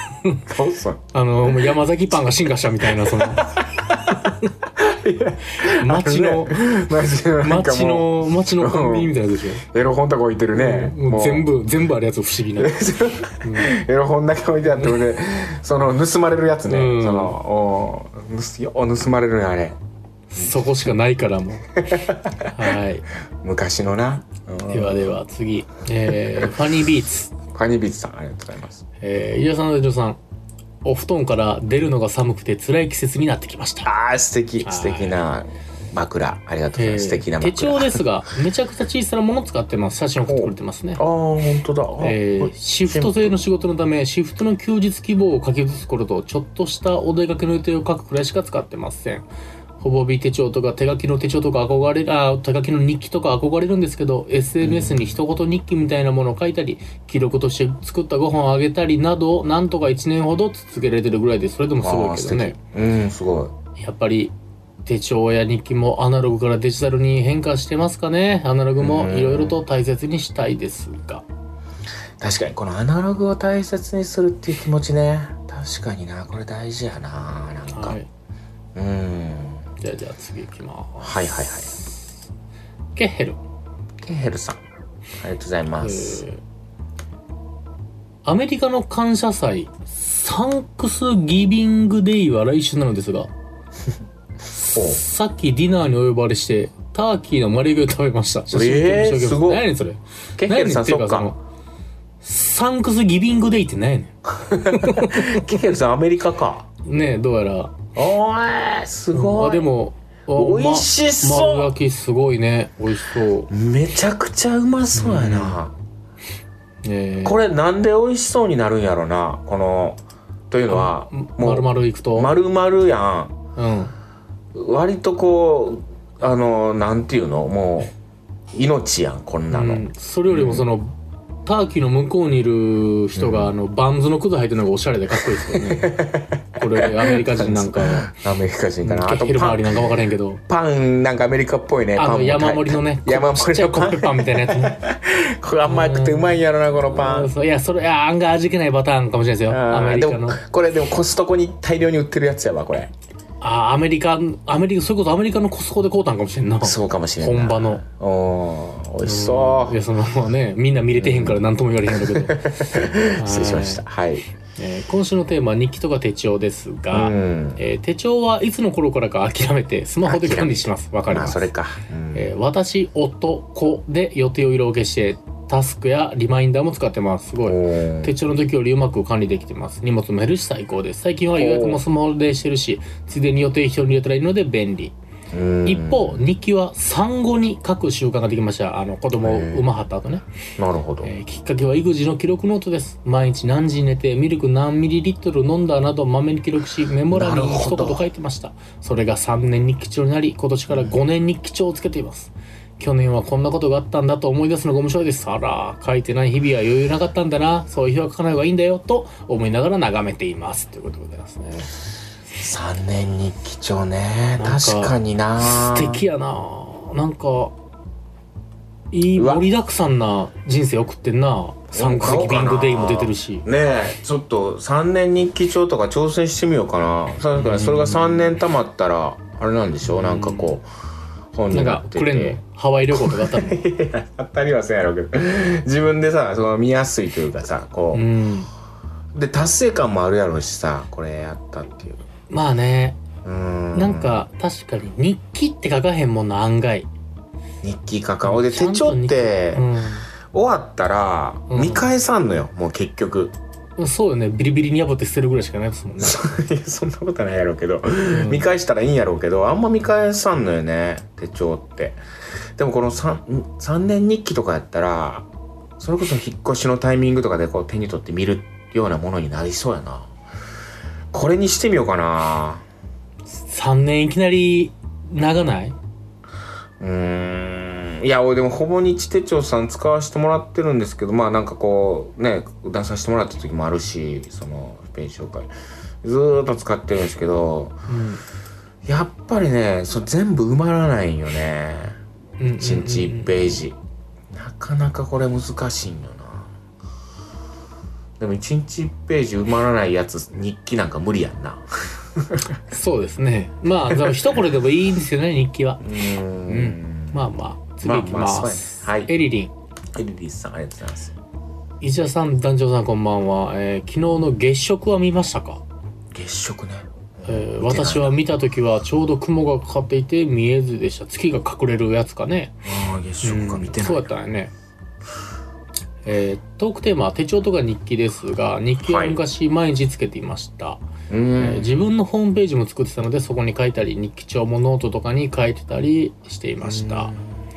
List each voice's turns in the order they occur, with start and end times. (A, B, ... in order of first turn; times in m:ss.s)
0:00.4-0:01.6 A
0:01.1-0:03.6 B
0:03.0-0:11.5 A
0:05.6-0:06.6 B
0:07.4-0:09.6 B
0:10.5-0:12.7 B
0:12.6-0:19.8 A
0:13.4-0:13.8 B
0:16.6-0:17.4 B
0:20.3-0:21.9 B
0:21.8-0:22.7 A
0:22.5-0:23.0 B
0:23.4-0:25.0 A
0:24.7-0:27.3 B
0:27.5-0:28.8 A
0:29.0-0:30.2 B
0:30.8-0:33.9 B
0:33.8-0:38.0 A
0:34.6-0:35.2 B
0:36.7-0:41.0 B
0:40.2-0:43.4 A
0:42.0-0:49.2 B
0:49.8-1:02.6 B
0:54.6-0:55.2 A
1:01.8-1:03.5 A
1:03.8-1:04.3 B
1:04.8-1:11.2 B
1:08.8-1:09.6 A
1:12.2-1:18.0 A
1:17.7-1:18.1 B
1:18.7-1:19.6 A
1:19.8-1:22.0 B
1:21.0-1:21.7 A
1:22.9-1:23.4 B
1:24.0-1:24.6 A
1:25.2-1:26.2 A
1:25.8-1:26.4 B
1:28.2-1:33.3 B
1:34.6-1:41.4 B
1:34.7-1:35.0 A
1:38.5-1:39.6 A
1:40.4-1:41.3 A
1:42.2-1:45.4 B
1:44.4-1:46.6 A
1:46.8-1:47.7 B
1:47.9-1:49.7 A
1:49.1-1:53.5 B
1:50.3-1:51.7 A
1:53.5-1:55.7 A
1:54.9-1:55.6 B
1:56.8-1:57.4 B
1:57.2-2:03.3 A
2:00.7-2:02.3 B
2:03.6-2:03.9 B
2:04.5-2:07.9 A
2:08.5-2:10.6 A
2:09.5-2:10.9 B
2:11.4-2:16.0 B
2:13.2-2:13.5 A
2:15.4-2:19.8 A
2:16.6-2:18.1 B
2:18.8-2:20.4 B
2:20.5-2:27.3 A
2:22.0-2:24.8 B
2:25.6-2:30.4 B
2:29.5-2:32.9 A
2:33.4-2:37.8 B
2:36.6-2:39.8 A
2:39.0-2:42.5 B
2:41.0-2:44.2 A
2:43.2-2:43.8 B
2:44.6-2:51.5 B
2:46.9-2:47.6 A
2:50.0-2:52.3 A
2:52.1-3:04.9 B
2:57.4-2:58.1 A
3:01.3-3:01.8 A
3:05.3-3:06.2 A
3:05.6-3:10.2 B
3:09.2-3:09.6 A
3:10.6-3:11.1 A
3:11.0-3:31.7 B
3:17.1-3:18.0 A
3:20.7-3:21.0 A
3:32.4-3:36.0 A
3:34.4-3:37.5 B
3:38.9-3:43.4 B
3:39.1-3:39.4 A
3:41.7-3:50.6 A
3:47.4-3:48.2 B
3:49.8-3:50.5 B
3:51.3-3:52.4 A
3:51.5-3:53.6 B
3:52.9-3:58.0 A
3:57.9-3:58.5 B
3:59.1-4:02.1 A
4:02.3-4:03.0 B
4:03.2-4:04.2 A
4:03.7-4:06.9 B
4:07.6-4:09.6 A
4:08.2-4:10.1 B
4:10.3-4:13.3 A
4:11.5-4:11.9 B
4:13.8-4:16.2 B
4:16.0-4:22.0 A
4:18.1-4:18.4 B
4:22.6-4:25.3 A
4:25.8-4:30.1 A
4:31.1-4:32.6 A
4:33.3-4:35.8 B
4:36.8-4:45.5 A
4:46.0-4:47.8 A
4:47.9-4:48.2 B
4:48.8-4:52.0 A
4:52.4-4:53.6 B
4:52.6-4:53.8 A
4:54.3-4:56.5 A
4:58.2-5:02.5 A
5:02.7-5:05.9 B
5:03.9-5:04.2 A
5:05.8-5:07.3 A
5:06.4-5:09.5 B
5:07.8-5:09.1 A
5:09.9-5:11.1 A
5:11.8-5:15.6 B
5:16.1-5:18.2 A
5:17.2-5:22.5 B
5:22.6-5:24.1 A
5:23.2-5:24.5 B
5:26.0-5:30.8 B
5:28.8-5:29.2 A
5:31.1-5:31.8 A
5:31.4-5:37.1 B
5:36.6-5:37.4 A